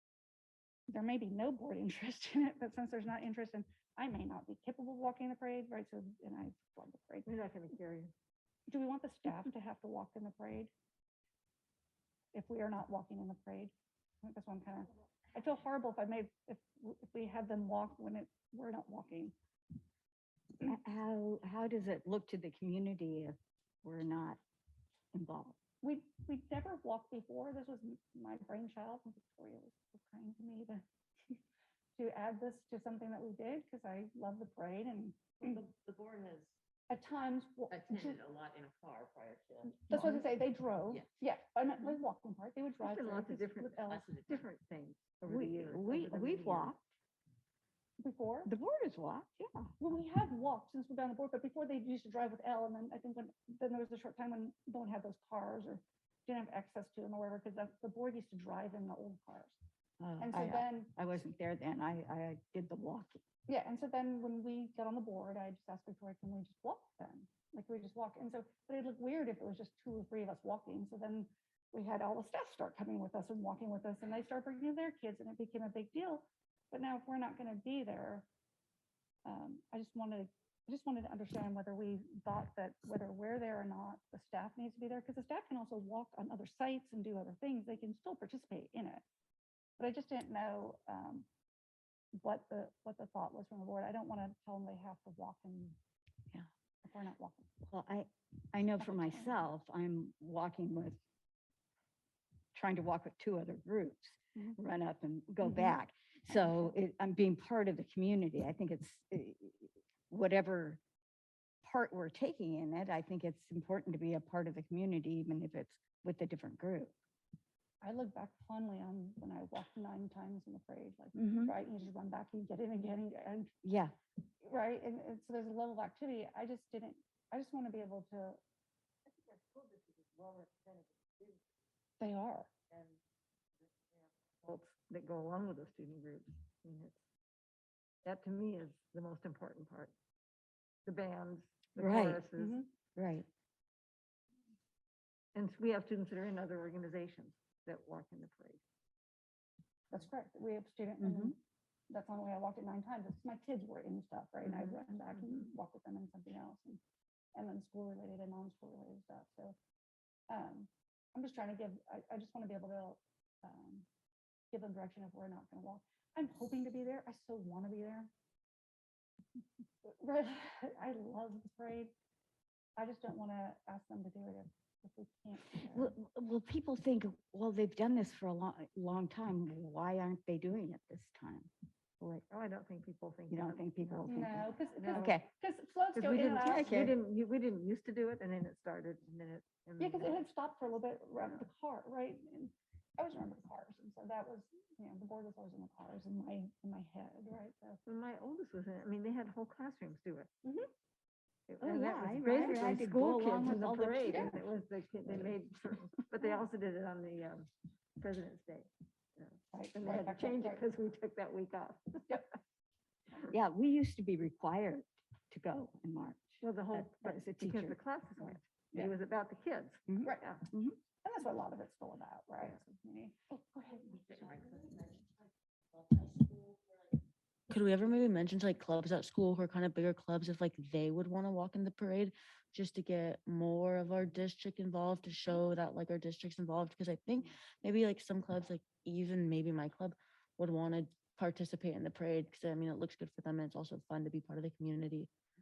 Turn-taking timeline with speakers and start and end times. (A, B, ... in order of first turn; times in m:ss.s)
0:00.9-0:07.3 A
0:07.2-0:08.1 B
0:08.7-0:10.7 A
0:12.3-0:19.3 A
0:20.6-0:24.4 C
0:25.1-0:25.6 C
0:25.8-0:31.4 A
0:32.0-0:35.6 A
0:35.7-0:36.4 D
0:36.9-0:38.2 A
0:37.9-0:39.8 D
0:39.9-0:44.1 A
0:42.8-0:46.8 B
0:45.3-0:46.8 C
0:48.0-0:48.5 A
0:48.5-0:49.7 C
0:49.8-0:59.6 A
1:00.0-1:03.2 C
1:00.2-1:01.0 A
1:03.5-1:18.3 A
1:19.2-1:29.0 A
1:29.8-1:31.3 A
1:32.2-1:35.8 A
1:36.8-1:37.5 A
1:37.7-1:41.0 C
1:38.8-1:39.4 A
1:42.5-1:50.8 C
1:45.4-1:45.8 A
1:46.3-1:46.8 A
1:51.6-1:56.9 C
1:57.8-2:03.5 A
2:01.1-2:01.5 C
2:03.6-2:04.0 C
2:04.4-2:08.4 A
2:12.0-2:12.5 A
2:14.4-2:17.0 B
2:18.0-2:19.9 B
2:20.9-2:22.6 B
2:21.8-2:22.2 C
2:22.4-2:22.7 A
2:23.0-2:23.3 C
2:25.4-2:28.6 B
2:29.9-2:31.4 A
2:31.0-2:31.3 C
2:31.9-2:36.8 A
2:34.5-2:34.7 B
2:37.4-2:39.6 A
2:40.3-2:43.9 A
2:44.5-2:48.1 A
2:49.8-2:51.9 A
2:52.8-2:55.9 A
2:55.5-3:01.5 C
3:02.0-3:02.2 C
3:02.3-3:05.2 B
3:03.3-3:05.3 C
3:04.1-3:06.7 A
3:05.9-3:10.3 B
3:06.2-3:07.0 C
3:09.8-3:17.8 A
3:11.2-3:11.4 B
3:17.9-3:20.3 B
3:21.5-3:27.5 B
3:21.6-3:24.4 C
3:24.1-3:24.4 A
3:28.0-3:32.2 B
3:29.5-3:30.6 A
3:33.3-3:37.8 C
3:36.4-3:40.4 B
3:40.5-3:40.8 C
3:41.0-3:44.7 A
3:45.8-3:46.5 E
3:47.5-4:05.1 E